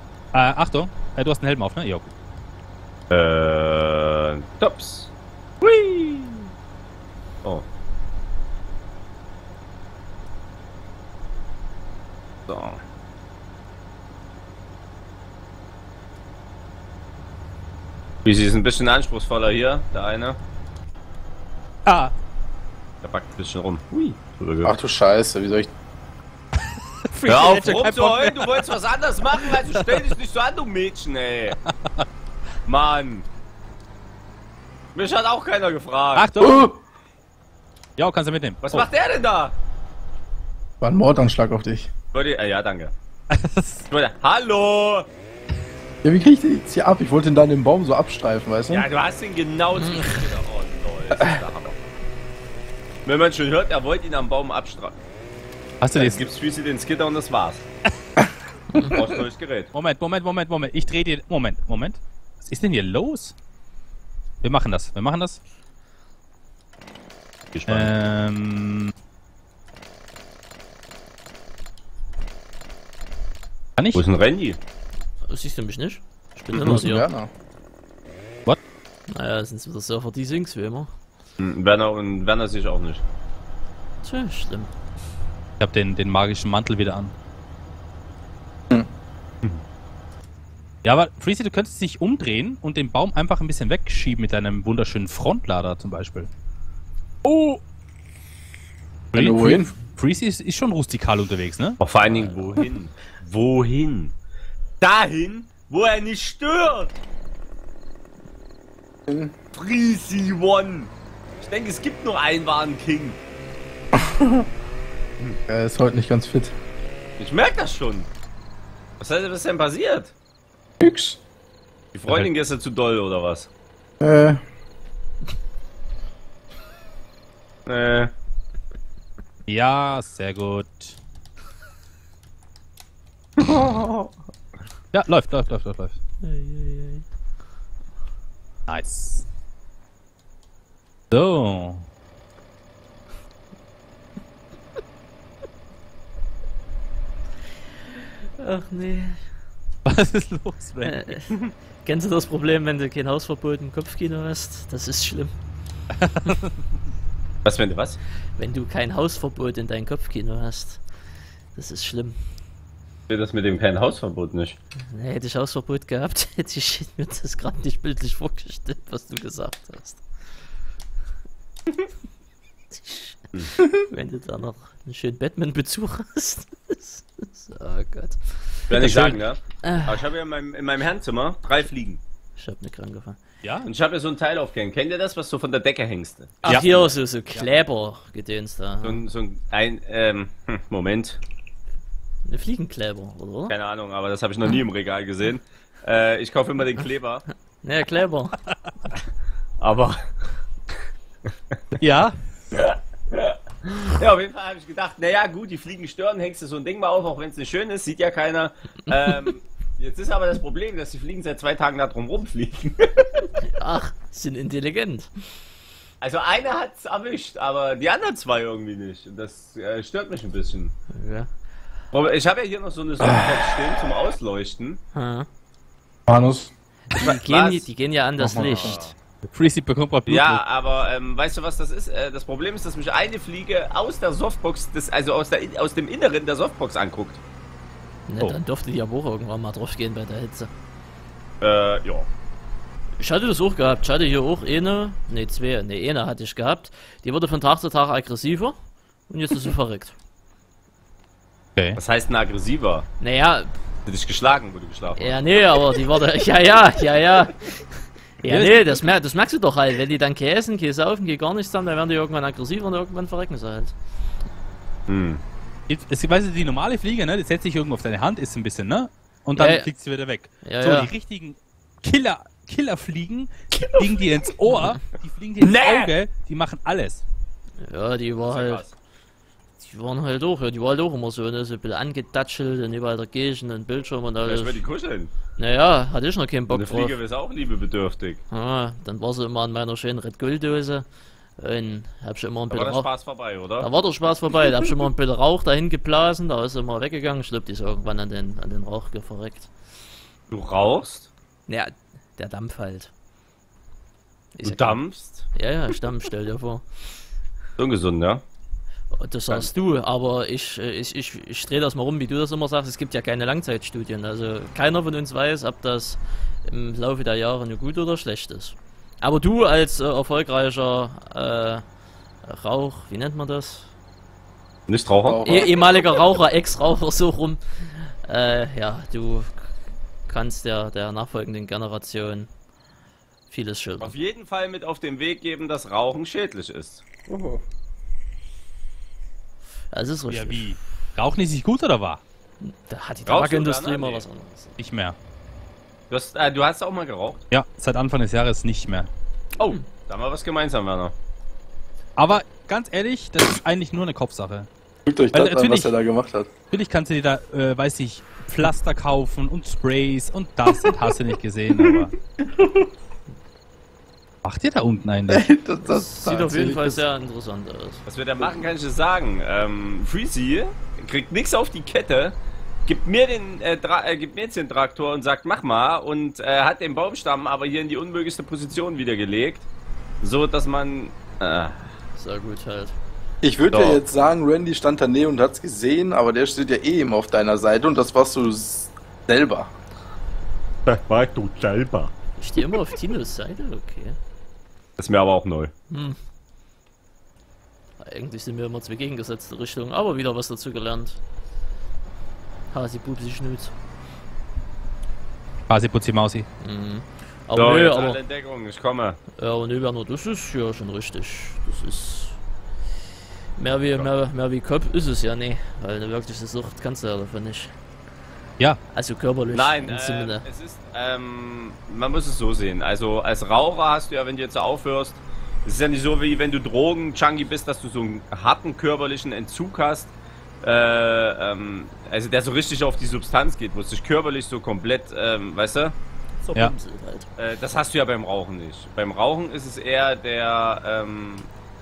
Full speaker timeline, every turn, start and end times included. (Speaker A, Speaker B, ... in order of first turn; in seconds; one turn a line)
Speaker A: 0.3-2.1
Speaker B: 3.1-6.5
Speaker B: 12.5-12.8
Speaker B: 18.2-20.4
Speaker A: 21.9-22.1
Speaker B: 23.0-24.7
Speaker C: 24.6-25.7
Speaker A: 27.1-28.7
Speaker B: 27.3-31.6
Speaker A: 29.5-29.9
Speaker B: 32.6-33.3
Speaker B: 35.0-36.2
Speaker A: 36.1-36.7
Speaker C: 36.4-36.8
Speaker A: 38.0-38.9
Speaker B: 38.6-39.6
Speaker C: 40.8-41.9
Speaker B: 42.1-42.9
Speaker A: 43.3-43.9
Speaker B: 43.9-45.1
Speaker C: 46.0-48.9
Speaker B: 48.7-51.8
Speaker D: 49.7-50.2
Speaker B: 53.0-55.0
Speaker A: 55.8-56.3
Speaker B: 55.9-57.6
Speaker B: 58.9-59.7
Speaker A: 59.7-63.4
Speaker A: 64.4-65.4
Speaker B: 67.5-67.9
Speaker A: 67.7-68.9
Speaker A: 73.8-74.0
Speaker B: 73.9-74.6
Speaker D: 75.3-77.1
Speaker B: 76.5-76.8
Speaker C: 76.6-77.3
Speaker D: 79.1-80.9
Speaker B: 81.4-83.0
Speaker D: 84.0-84.7
Speaker A: 85.6-87.1
Speaker A: 90.8-96.3
Speaker B: 97.2-97.6
Speaker A: 99.1-101.8
Speaker C: 99.1-99.7
Speaker B: 101.8-104.2
Speaker D: 102.1-102.6
Speaker B: 104.8-107.0
Speaker B: 109.5-113.2
Speaker C: 114.2-114.5
Speaker C: 115.5-116.5
Speaker B: 117.2-118.1
Speaker B: 119.0-120.1
Speaker C: 120.8-121.2
Speaker B: 121.9-123.5
Speaker C: 124.0-124.4
Speaker B: 127.7-128.1
Speaker A: 129.5-131.0
Speaker B: 133.4-134.1
Speaker A: 134.9-136.0
Speaker D: 136.2-137.1
Speaker A: 138.7-139.3
Speaker A: 141.1-141.9
Speaker D: 148.4-149.2
Speaker A: 149.8-151.1
Speaker D: 150.8-155.3
Speaker A: 156.0-156.3
Speaker B: 157.4-158.0
Speaker D: 158.4-160.8
Speaker D: 161.5-162.2
Speaker B: 163.1-164.6
Speaker D: 164.9-170.0
Speaker D: 172.9-178.9
Speaker B: 178.7-182.0
Speaker A: 178.8-179.1
Speaker D: 179.6-180.0
Speaker D: 182.4-183.2
Speaker A: 183.4-183.7
Speaker B: 183.6-186.9
Speaker D: 186.4-189.0
Speaker B: 188.8-191.2
Speaker D: 192.2-193.5
Speaker B: 193.5-197.3
Speaker D: 197.6-198.4
Speaker B: 199.6-200.1
Speaker A: 201.8-202.2
Speaker B: 202.5-213.3
Speaker D: 213.5-215.1
Speaker B: 216.0-220.7
Speaker D: 220.9-221.3
Speaker B: 221.9-224.8
Speaker D: 224.9-225.3
Speaker C: 226.1-226.5
Speaker D: 226.9-228.9
Speaker B: 227.0-227.7
Speaker B: 228.5-228.9
Speaker A: 229.3-230.4
Speaker B: 230.1-237.2
Speaker D: 238.1-240.5
Speaker B: 241.4-242.1
Speaker D: 243.0-248.6
Speaker D: 249.1-250.0
Speaker B: 251.8-252.9
Speaker D: 253.0-253.5
Speaker B: 253.9-255.2
Speaker D: 255.0-263.8
Speaker A: 258.2-258.8
Speaker B: 264.9-265.2
Speaker A: 265.7-277.0
Speaker D: 269.4-269.7
Speaker D: 270.4-270.9
Speaker B: 273.5-274.2
Speaker B: 275.4-275.9
Speaker D: 277.6-278.7
Speaker B: 278.2-278.7
Speaker D: 279.6-284.6
Speaker B: 284.2-285.1
Speaker D: 285.4-287.0
Speaker B: 286.5-288.2
Speaker D: 288.3-290.9
Speaker D: 291.4-292.9
Speaker B: 292.5-293.7
Speaker D: 293.6-299.5
Speaker B: 300.3-301.1
Speaker D: 301.5-302.9
Speaker D: 304.4-304.8
Speaker B: 304.4-305.3
Speaker D: 305.3-306.6
Speaker B: 307.6-308.2
Speaker D: 308.9-321.6
Speaker D: 322.2-323.7
Speaker B: 324.7-325.5
Speaker C: 325.0-325.6
Speaker D: 325.2-329.5
Speaker D: 330.1-332.3
Speaker D: 333.3-334.0
Speaker B: 333.8-337.4
Speaker D: 339.7-340.5
Speaker A: 340.1-342.0
Speaker D: 342.4-344.6
Speaker B: 343.1-344.1
Speaker A: 344.6-345.0
Speaker B: 345.9-347.2
Speaker A: 347.3-348.9
Speaker B: 349.4-350.9
Speaker A: 352.0-354.5
Speaker C: 354.9-356.3
Speaker A: 355.1-355.7
Speaker A: 356.5-361.9
Speaker A: 364.2-365.2
Speaker C: 365.1-366.8
Speaker D: 365.6-367.8
Speaker B: 367.9-379.5
Speaker B: 380.0-381.7
Speaker D: 382.0-382.8
Speaker C: 383.2-389.5
Speaker B: 383.5-383.8
Speaker B: 390.7-391.9
Speaker D: 392.2-394.0
Speaker B: 394.8-395.5
Speaker D: 395.7-396.0
Speaker D: 397.8-401.0
Speaker D: 402.5-403.5
Speaker A: 405.5-406.3
Speaker D: 406.4-408.0
Speaker B: 407.4-409.0
Speaker D: 409.2-412.2
Speaker D: 413.4-417.5
Speaker D: 418.7-420.2
Speaker B: 419.3-435.8
Speaker D: 436.2-437.1
Speaker B: 437.2-441.3